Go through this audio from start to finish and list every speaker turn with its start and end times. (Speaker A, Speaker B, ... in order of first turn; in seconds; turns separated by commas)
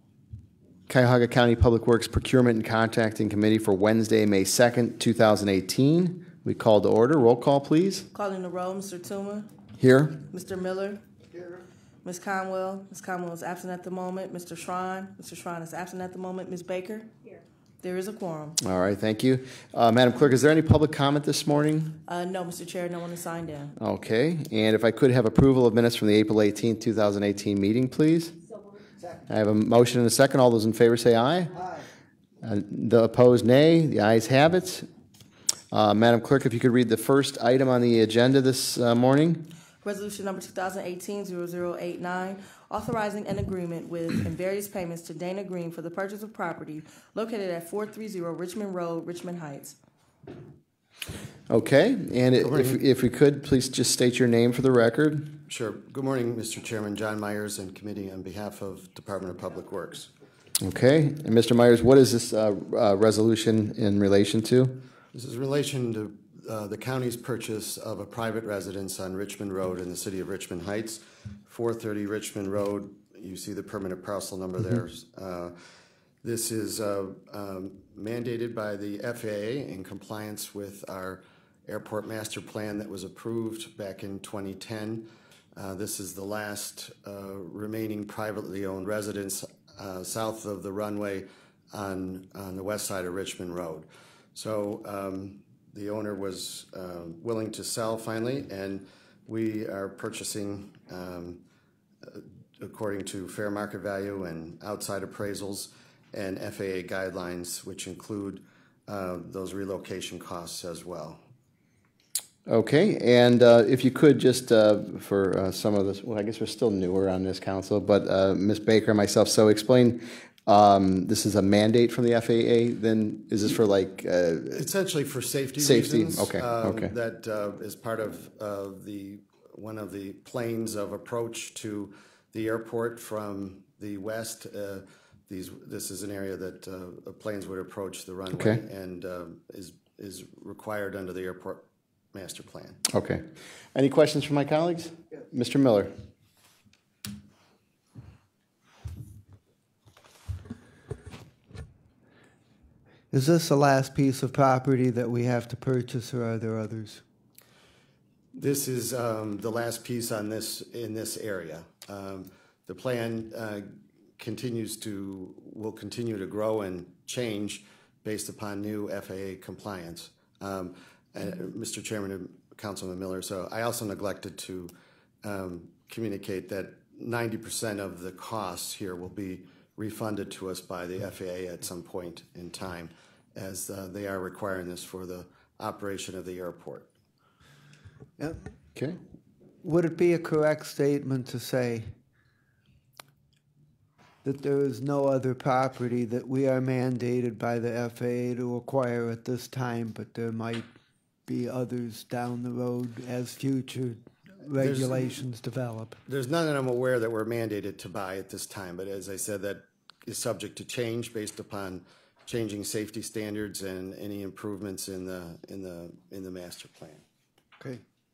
Speaker A: 0.9-8.1, Speaker B: 8.1-9.5, Speaker A: 9.8-10.2, Speaker B: 10.3-11.0, Speaker B: 12.0-18.6, Speaker A: 18.6-22.0, Speaker B: 22.1-23.7, Speaker A: 23.8-28.4, Speaker A: 29.3-31.6, Speaker A: 32.4-34.9, Speaker A: 35.7-39.5, Speaker B: 39.8-49.8, Speaker A: 51.5-55.4, Speaker C: 55.5-60.1, Speaker A: 60.6-64.8, Speaker C: 65.1-75.6, Speaker C: 76.2-101.4, Speaker C: 102.0-111.2, Speaker A: 112.5-124.7, Speaker C: 124.6-142.8, Speaker A: 125.6-126.9, Speaker A: 138.3-138.6, Speaker A: 142.9-145.9, Speaker D: 153.1-157.0, Speaker C: 158.3-174.7, Speaker C: 175.2-186.9, Speaker A: 188.7-189.0, Speaker D: 189.6-191.9, Speaker D: 194.2-200.7, Speaker D: 201.3-206.0, Speaker C: 204.6-205.2, Speaker C: 206.1-217.0